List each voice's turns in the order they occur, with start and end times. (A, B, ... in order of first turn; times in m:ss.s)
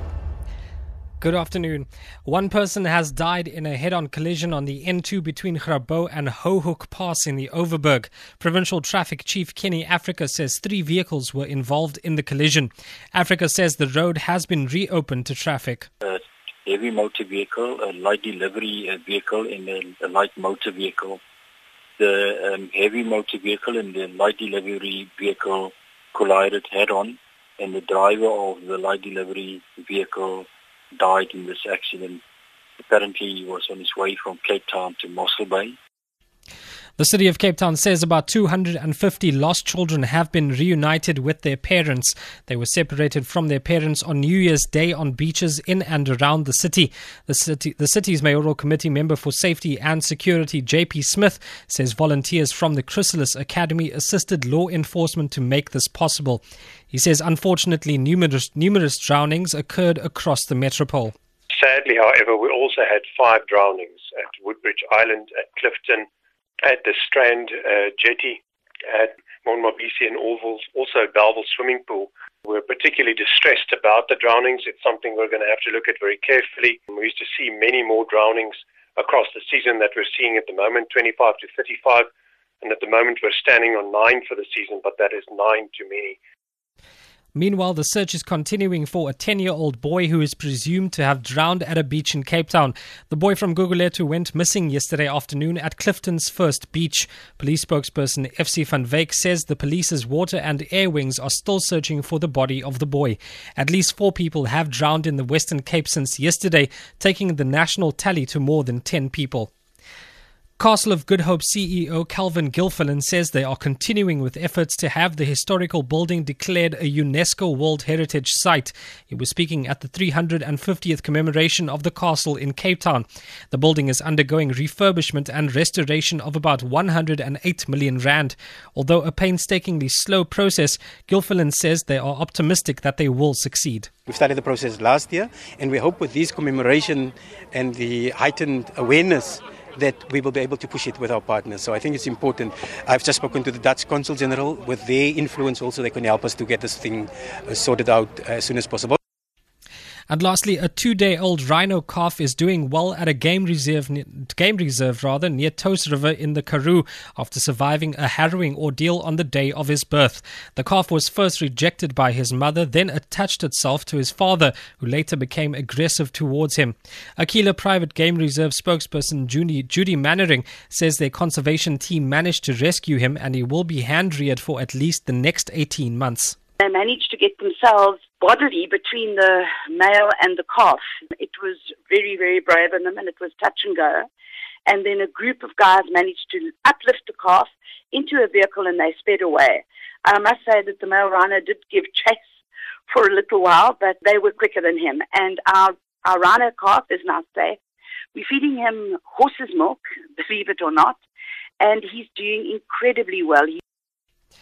0:01.2-0:15.9 A
0:16.0-0:21.2 B
0:22.0-0:32.2 B
0:32.8-0:35.8 B
0:37.0-1:01.1 A
1:01.5-1:06.0 C
1:06.6-1:08.4 C
1:08.9-1:22.0 C
1:22.6-1:26.2 C
1:27.3-1:49.5 A
1:50.6-2:13.9 A
2:14.1-2:29.0 D
2:30.1-2:56.4 A
2:56.6-3:04.0 E
3:04.6-3:12.2 E
3:12.9-3:17.6 E
3:18.1-3:21.0 E
3:21.6-3:23.6 E